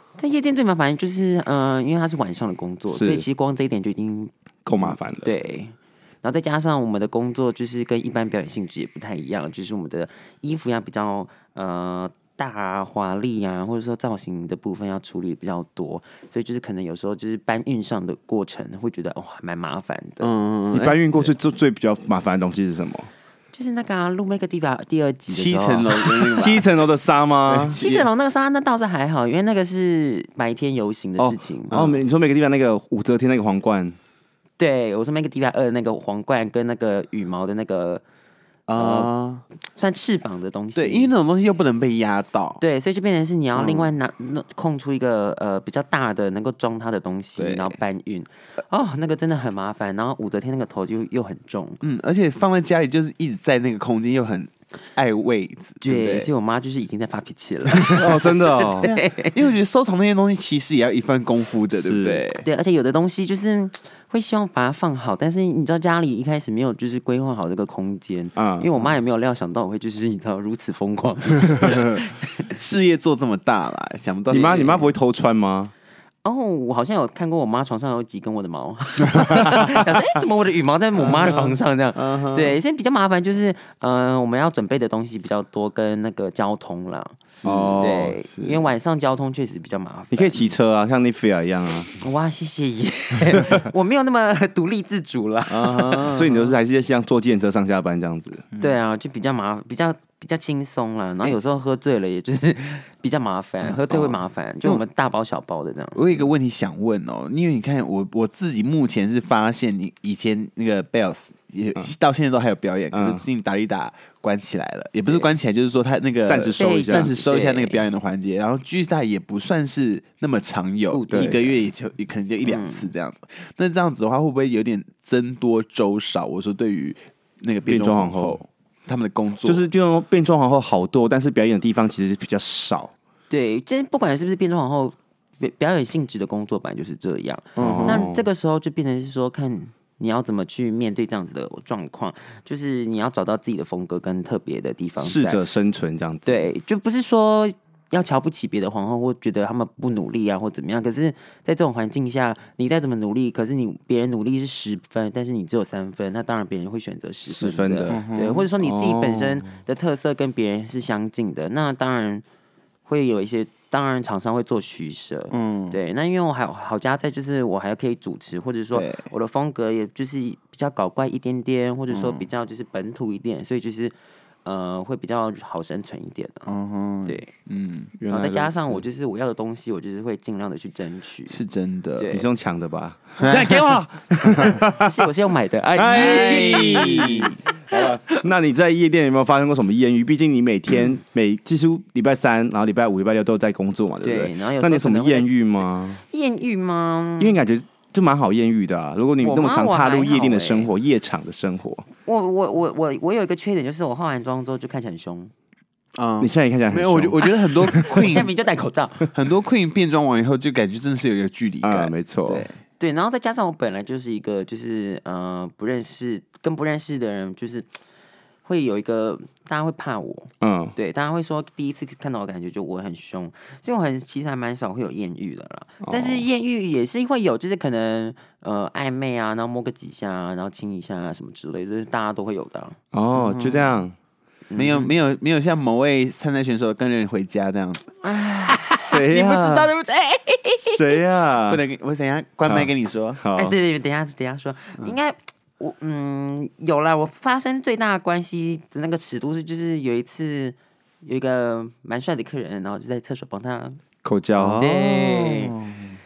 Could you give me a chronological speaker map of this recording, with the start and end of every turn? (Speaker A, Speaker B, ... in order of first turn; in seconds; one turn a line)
Speaker A: 0.2-4.3
Speaker B: 2.9-3.2
Speaker B: 4.7-5.3
Speaker A: 5.2-20.3
Speaker C: 20.2-21.2
Speaker B: 20.7-23.1
Speaker A: 23.5-26.6
Speaker C: 25.3-26.7
Speaker B: 26.3-27.8
Speaker C: 27.5-28.1
Speaker A: 27.8-31.8
Speaker B: 31.2-34.0
Speaker C: 31.7-32.0
Speaker A: 34.6-38.0
Speaker C: 38.7-39.4
Speaker A: 38.8-39.1
Speaker A: 39.7-41.1
Speaker C: 40.8-42.6
Speaker A: 42.6-51.8
Speaker C: 43.5-43.9
Speaker C: 47.4-47.7
Speaker C: 51.8-56.3
Speaker A: 55.8-59.5
Speaker B: 57.8-58.9
Speaker C: 58.8-62.4
Speaker B: 61.7-62.2
Speaker A: 62.4-72.2
Speaker B: 68.4-68.7
Speaker C: 72.5-74.6
Speaker A: 74.2-74.9
Speaker B: 74.3-75.7
Speaker A: 76.2-87.2
Speaker C: 81.0-82.6
Speaker C: 87.3-88.6
Speaker B: 87.4-88.2
Speaker A: 87.8-90.5
Speaker B: 90.1-91.9
Speaker A: 92.0-96.2
Speaker C: 95.5-96.5
Speaker B: 96.1-98.4
Speaker A: 98.6-106.1
Speaker C: 103.6-104.8
Speaker C: 105.9-129.7
Speaker B: 112.9-113.2
Speaker B: 116.3-117.1
Speaker A: 116.6-117.8
Speaker A: 120.9-121.6
Speaker B: 121.1-121.3
Speaker A: 122.4-122.9
Speaker B: 127.7-128.4
Speaker B: 129.4-132.9
Speaker A: 133.3-145.4
Speaker C: 137.6-138.1
Speaker B: 137.6-138.2
Speaker B: 145.0-146.5
Speaker A: 146.2-162.2
Speaker B: 157.3-158.0
Speaker C: 157.9-158.5
Speaker B: 158.6-159.5
Speaker A: 162.9-176.5
Speaker C: 165.3-165.8
Speaker C: 168.7-169.0
Speaker C: 171.9-172.3
Speaker C: 176.5-177.9
Speaker B: 178.0-178.8
Speaker A: 178.1-181.4
Speaker C: 181.3-182.1
Speaker A: 182.0-182.3
Speaker B: 182.1-184.9
Speaker C: 183.2-183.7
Speaker C: 184.3-184.6
Speaker A: 184.8-188.3
Speaker B: 185.8-196.0
Speaker C: 185.8-187.3
Speaker A: 194.0-197.4
Speaker B: 197.2-201.9
Speaker A: 199.2-200.7
Speaker A: 202.1-205.3
Speaker C: 205.9-208.3
Speaker B: 206.2-208.2
Speaker A: 207.2-209.1
Speaker C: 209.1-212.6
Speaker B: 211.6-212.5
Speaker A: 212.8-217.8
Speaker A: 218.4-232.8
Speaker B: 220.4-220.8
Speaker B: 225.8-226.2
Speaker B: 232.9-233.9
Speaker C: 233.1-233.8
Speaker A: 234.5-234.9
Speaker C: 234.5-243.2
Speaker A: 238.0-238.9
Speaker B: 238.8-239.7
Speaker B: 240.6-241.6
Speaker B: 242.5-243.6
Speaker A: 243.3-253.8
Speaker B: 254.0-254.6
Speaker C: 254.4-255.9
Speaker A: 254.6-255.6